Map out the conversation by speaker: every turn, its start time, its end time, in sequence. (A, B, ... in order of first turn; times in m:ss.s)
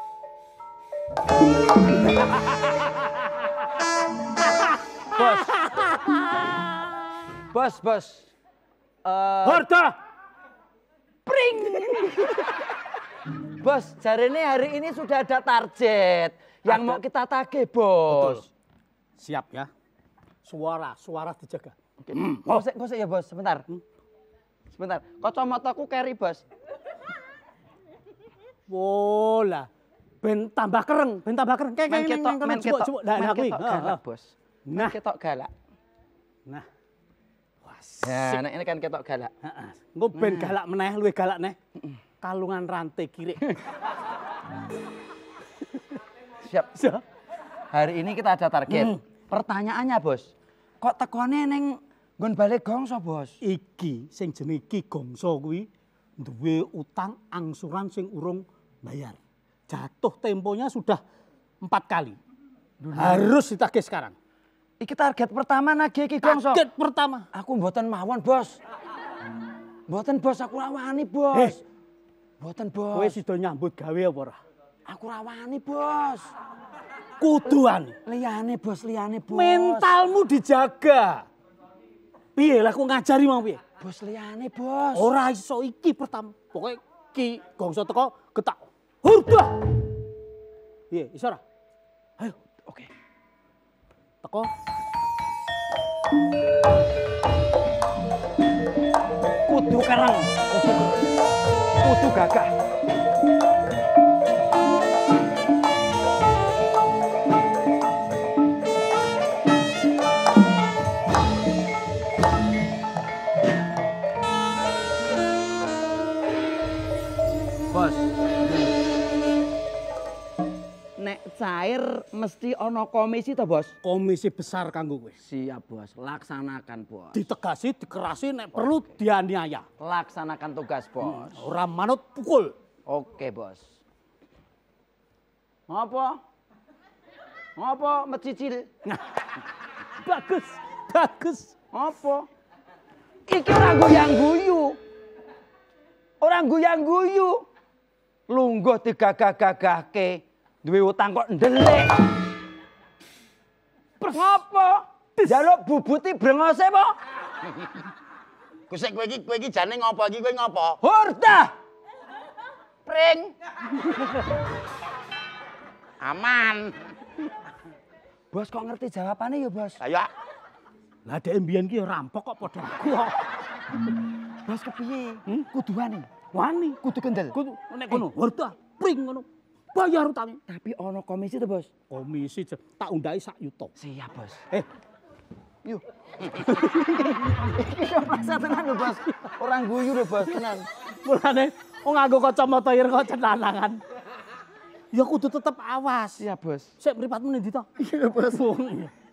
0:05.1-0:05.6 A
0:05.4-0:07.3 B
0:07.5-0:08.3 A
0:09.0-0:09.6 A
0:09.4-0:10.0 B
0:11.3-0:12.5 A
0:11.8-0:12.2 B
0:13.6-0:18.5 A
0:16.6-0:17.0 B
0:18.1-0:18.4 B
0:19.2-0:19.7 B
0:20.4-0:22.6 B
0:22.0-0:23.7 A
0:24.7-0:26.4 A
0:28.7-0:29.7 B
0:30.2-0:34.0 B
0:31.9-0:35.5 A
0:34.7-0:35.0 B
0:37.6-0:38.4 B
0:38.0-0:39.3 A
0:39.4-0:41.6 B
0:40.1-0:40.5 A
0:42.2-0:43.5 B
0:46.4-0:46.7 A
0:46.7-0:47.0 B
0:47.7-0:53.4 A
0:48.7-0:49.0 B
0:53.4-1:01.0 B
1:01.6-1:02.2 B
1:02.8-1:03.3 A
1:02.9-1:04.1 B
1:04.8-1:06.6 A
1:06.2-1:07.2 B
1:07.3-1:08.6 A
1:09.9-1:11.6 A
1:11.3-1:11.6 B
1:12.4-1:13.2 A
1:12.9-1:14.4 B
1:14.9-1:16.3 A
1:17.2-1:18.0 B
1:18.0-1:19.9 A
1:19.3-1:21.2 B
1:22.3-1:23.6 B
1:23.8-1:25.1 A
1:24.9-1:29.7 B
1:30.9-1:31.4 B
1:32.2-1:32.9 A
1:34.2-1:34.5 B
1:39.4-1:41.1 A
1:41.8-1:42.5 A
1:57.7-1:58.7 A
2:01.0-2:03.7 A
2:03.8-2:05.2 B
2:05.2-2:07.2 A
2:07.1-2:09.6 B
2:09.8-2:11.5 A
2:11.0-2:12.5 B
2:12.8-2:13.8 A
2:15.7-2:16.2 A
2:17.6-2:18.7 A
2:20.0-2:21.5 B
2:21.7-2:22.3 A
2:23.3-2:24.8 A
2:26.2-2:27.4 A
2:28.3-2:32.0 A
2:34.0-2:37.0 A
2:38.7-2:40.8 C
2:40.8-2:41.5 A
2:42.8-2:43.3 A
2:46.0-2:46.8 C
2:48.3-2:49.8 A
2:49.8-2:50.1 C
2:51.0-2:53.3 B
2:54.4-2:56.1 A
2:56.3-2:56.8 B
2:56.8-2:57.4 A
2:57.3-3:00.4 B
3:00.5-3:01.7 A
3:01.9-3:03.7 B
3:03.8-3:04.4 A
3:05.6-3:10.7 A
3:06.6-3:06.9 B
3:11.0-3:13.8 B
3:14.9-3:16.2 B
3:16.2-3:16.7 A
3:16.8-3:18.9 B